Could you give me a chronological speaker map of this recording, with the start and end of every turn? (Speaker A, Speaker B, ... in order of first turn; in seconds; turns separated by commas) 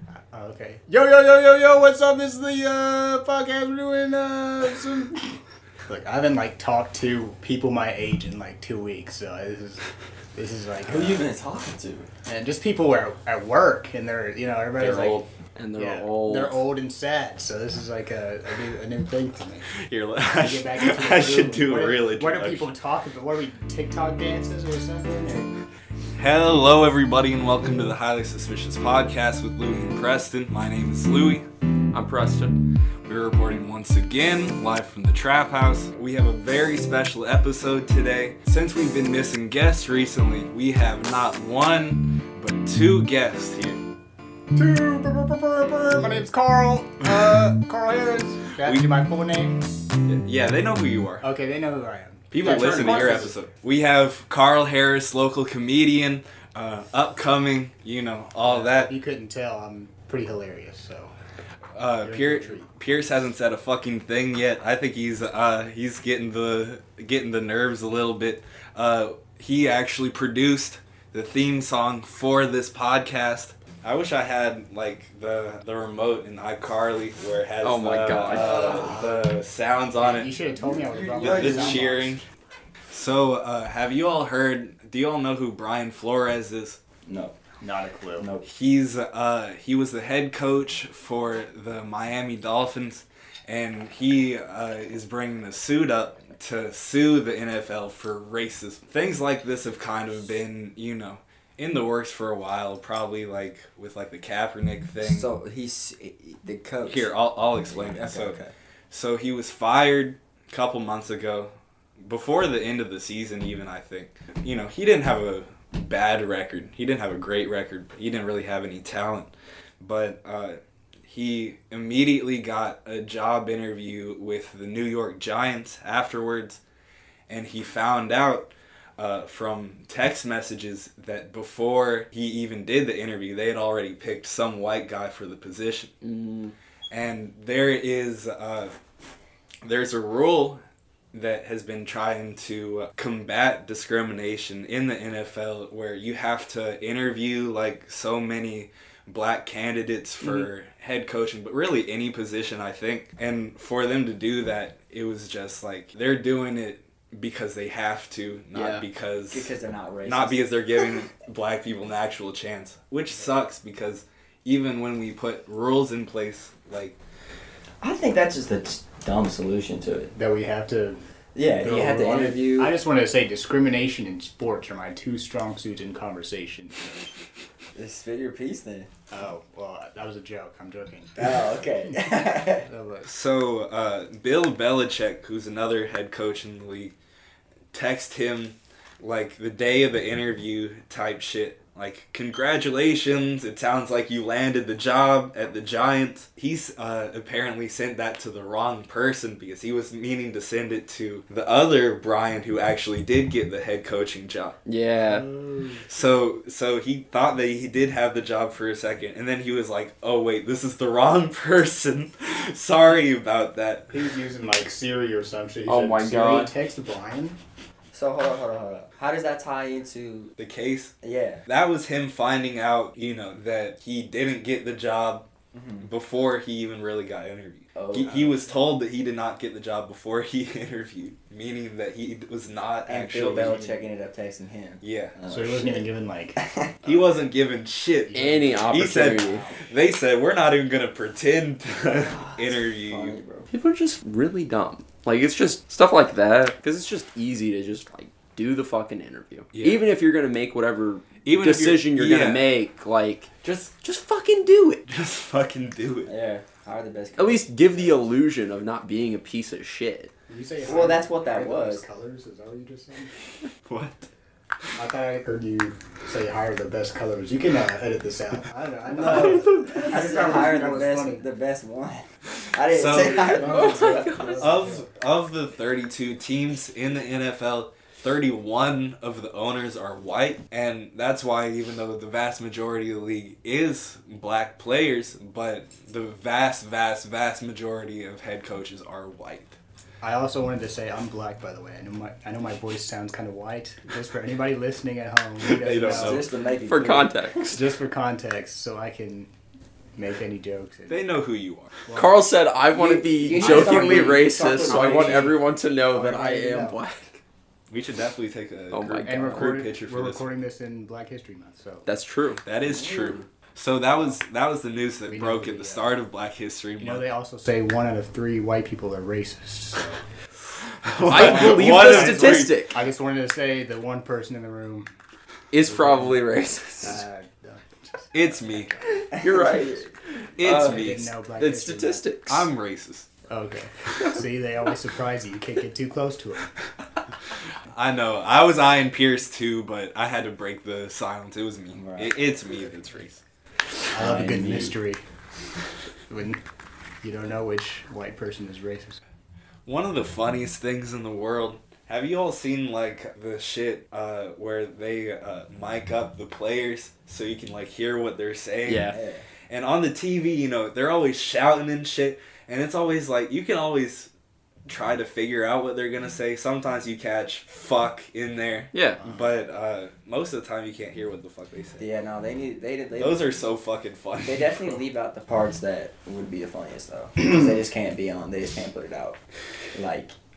Speaker A: 0.1-5.3, Speaker A: 5.9-9.8, Speaker A: 10.3-11.3, Speaker B: 10.8-12.1, Speaker A: 12.3-15.2, Speaker C: 14.8-16.6, Speaker A: 15.8-19.7, Speaker D: 19.7-22.7, Speaker A: 20.4-25.5, Speaker D: 26.1-31.5, Speaker C: 31.9-32.6, Speaker D: 33.0-43.8, Speaker A: 44.5-49.6, Speaker D: 50.1-51.2, Speaker A: 51.2-53.4, Speaker D: 52.3-58.9, Speaker A: 58.4-61.1, Speaker D: 61.8-80.3, Speaker A: 62.0-62.7, Speaker C: 77.6-78.9, Speaker B: 78.3-79.2, Speaker A: 78.5-79.3, Speaker A: 80.0-82.1, Speaker B: 80.4-81.9, Speaker D: 81.1-82.2, Speaker D: 82.9-86.8, Speaker B: 87.0-87.4, Speaker A: 87.6-88.3, Speaker B: 88.2-88.4, Speaker D: 88.4-105.3, Speaker B: 105.0-107.1, Speaker D: 106.8-108.4, Speaker B: 107.7-108.5, Speaker D: 108.9-111.5, Speaker D: 112.0-126.6, Speaker D: 127.3-135.9, Speaker C: 136.0-136.5, Speaker D: 136.9-138.8, Speaker D: 139.6-140.6, Speaker D: 141.1-159.5, Speaker C: 150.2-150.5, Speaker C: 158.5-158.8, Speaker B: 159.3-160.4, Speaker D: 160.1-167.0, Speaker B: 167.8-170.1, Speaker A: 170.1-171.0, Speaker B: 171.3-172.8, Speaker A: 171.6-176.9, Speaker B: 177.8-178.9, Speaker A: 179.1-183.1, Speaker B: 181.2-182.7, Speaker D: 183.0-186.9, Speaker D: 187.7-204.6, Speaker C: 204.7-205.2, Speaker A: 205.0-205.8, Speaker D: 205.9-213.9, Speaker A: 213.9-217.3, Speaker C: 215.7-216.5, Speaker B: 217.9-220.3, Speaker D: 220.4-220.9, Speaker B: 221.0-221.4, Speaker D: 221.5-225.3, Speaker B: 225.5-225.9, Speaker D: 225.8-233.6, Speaker B: 227.8-228.4, Speaker B: 232.9-235.8, Speaker A: 233.4-233.8, Speaker D: 234.8-235.2, Speaker A: 235.3-236.4, Speaker B: 236.4-236.7, Speaker D: 236.8-243.2, Speaker A: 238.1-239.6, Speaker C: 238.1-239.4, Speaker B: 241.8-243.5, Speaker C: 243.5-254.8, Speaker D: 249.5-249.8, Speaker D: 251.2-252.5, Speaker D: 254.9-256.1, Speaker B: 256.1-257.9, Speaker C: 257.2-260.1, Speaker A: 260.3-263.1, Speaker B: 260.6-261.8, Speaker D: 263.7-264.1, Speaker A: 264.8-271.2, Speaker B: 268.9-274.1, Speaker C: 269.0-270.2, Speaker D: 272.6-273.6, Speaker A: 273.1-274.9, Speaker C: 273.2-274.6, Speaker D: 274.3-289.6, Speaker A: 290.0-296.2, Speaker D: 295.4-296.3, Speaker B: 295.9-297.1, Speaker C: 296.7-297.6, Speaker A: 297.5-299.3, Speaker A: 299.9-301.1, Speaker D: 300.9-301.7, Speaker A: 301.9-302.2, Speaker C: 301.9-307.1, Speaker B: 302.7-305.4, Speaker A: 303.3-304.9, Speaker A: 305.9-306.8, Speaker D: 307.7-310.2, Speaker C: 308.7-309.5, Speaker A: 309.1-311.9, Speaker C: 311.9-312.4, Speaker D: 312.4-317.0, Speaker B: 312.6-313.3, Speaker A: 315.1-315.9, Speaker A: 316.8-320.0, Speaker D: 320.6-322.6, Speaker A: 321.1-324.9, Speaker C: 321.1-322.7, Speaker C: 325.5-327.0, Speaker A: 325.6-326.3, Speaker A: 326.8-329.5, Speaker D: 328.1-328.7, Speaker C: 329.1-332.5, Speaker B: 329.1-329.9, Speaker D: 330.4-331.1, Speaker A: 330.5-332.1, Speaker D: 332.3-333.1, Speaker A: 333.3-336.5, Speaker D: 337.7-343.2, Speaker B: 341.7-342.2, Speaker A: 343.9-345.0, Speaker B: 343.9-344.8, Speaker A: 346.1-346.4, Speaker A: 347.0-349.0, Speaker D: 349.7-359.0, Speaker C: 358.7-359.0, Speaker B: 358.9-359.3, Speaker D: 359.5-364.1, Speaker D: 364.7-371.9, Speaker C: 368.7-369.0, Speaker B: 371.8-373.3, Speaker D: 373.0-374.8, Speaker B: 374.2-379.2, Speaker B: 379.7-380.1